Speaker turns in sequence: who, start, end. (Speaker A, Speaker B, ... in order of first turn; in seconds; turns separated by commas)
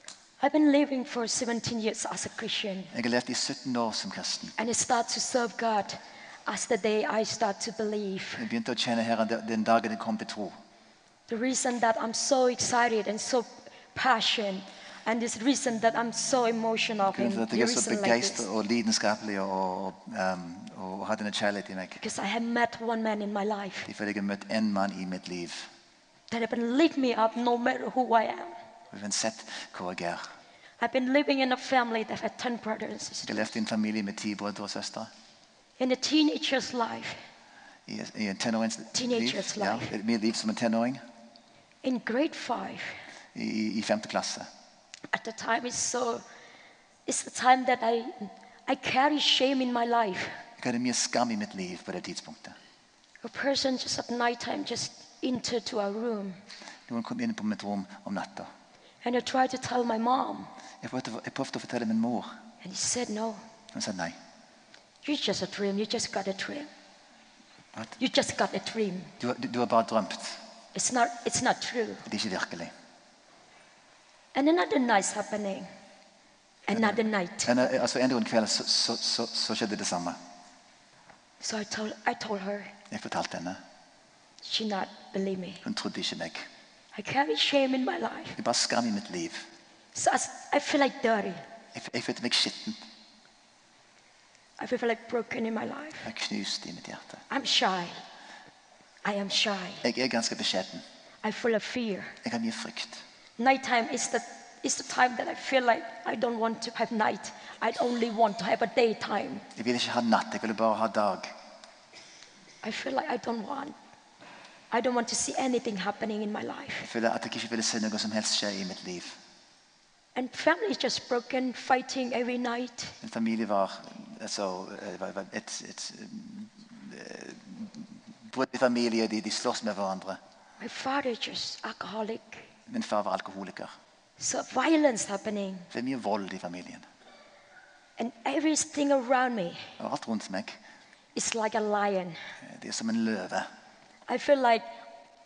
Speaker A: 0.4-2.9, Speaker B: 2.9-4.5, Speaker A: 4.6-8.4, Speaker B: 8.4-10.5, Speaker A: 11.3-18.4, Speaker B: 17.1-22.0, Speaker A: 22.0-23.9, Speaker B: 23.9-25.7, Speaker A: 26.3-28.5, Speaker B: 28.9-30.2, Speaker A: 30.8-33.5, Speaker B: 33.2-35.1, Speaker A: 35.8-37.2, Speaker B: 37.9-41.0, Speaker A: 38.9-39.9, Speaker A: 41.8-43.0, Speaker B: 43.3-44.5, Speaker A: 45.1-46.2, Speaker A: 47.1-50.4, Speaker B: 50.6-52.5, Speaker A: 53.2-56.4, Speaker B: 56.9-58.5, Speaker A: 59.0-60.5, Speaker B: 60.8-62.3, Speaker A: 62.6-63.4, Speaker B: 63.7-64.2, Speaker A: 65.0-66.7, Speaker A: 68.0-69.1, Speaker B: 69.2-70.4, Speaker A: 70.7-72.0, Speaker B: 72.0-72.7, Speaker A: 74.3-75.7, Speaker A: 76.7-77.5, Speaker B: 76.7-80.2, Speaker A: 81.4-82.7, Speaker B: 82.9-83.6, Speaker A: 84.4-85.6, Speaker B: 85.6-86.4, Speaker A: 86.9-88.4, Speaker B: 88.3-89.4, Speaker A: 89.9-91.4, Speaker B: 91.7-92.8, Speaker A: 94.6-96.1, Speaker B: 96.0-97.2, Speaker A: 97.3-98.0, Speaker A: 99.0-99.8, Speaker B: 99.8-100.8, Speaker A: 101.2-102.1, Speaker B: 102.2-103.0, Speaker A: 103.4-109.4, Speaker B: 109.5-111.3, Speaker A: 112.6-113.7, Speaker A: 114.7-116.9, Speaker B: 116.8-119.2, Speaker A: 120.2-122.9, Speaker B: 123.0-130.2, Speaker A: 130.6-132.5, Speaker B: 132.7-133.7, Speaker A: 134.2-135.7, Speaker B: 135.7-136.8, Speaker A: 138.0-139.7, Speaker B: 139.8-140.6, Speaker A: 141.1-142.2, Speaker B: 142.4-143.5, Speaker A: 144.1-144.6